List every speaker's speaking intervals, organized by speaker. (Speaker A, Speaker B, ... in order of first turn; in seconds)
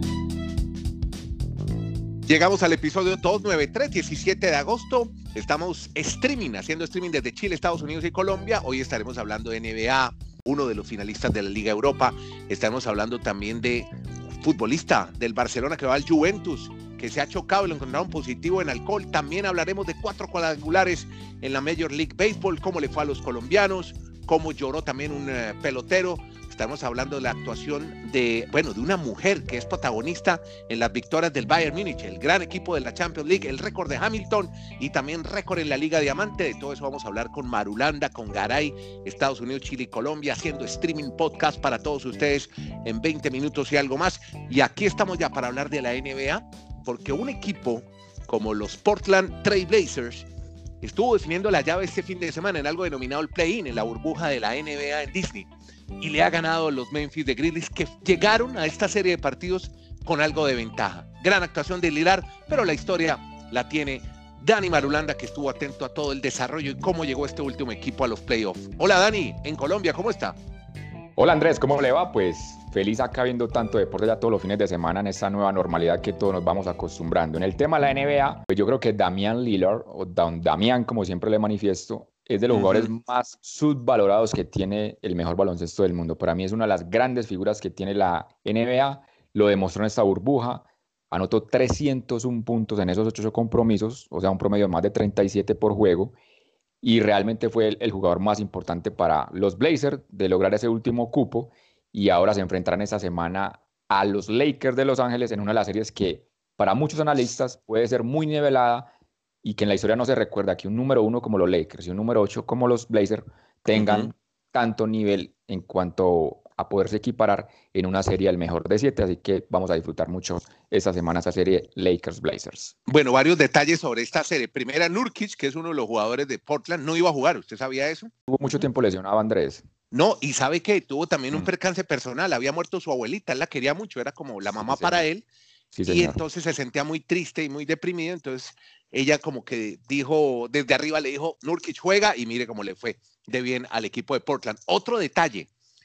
Speaker A: 2.3-13.9, 14.4-50.3, 50.8-70.4, 82.5-82.9, 113.8-114.1, 122.9-128.7, 129.9-135.3, 135.9-145.5
Speaker B: 71.2-96.2, 96.8-108.9, 109.4-122.7, 128.3-129.7, 134.5-135.1, 135.7-136.2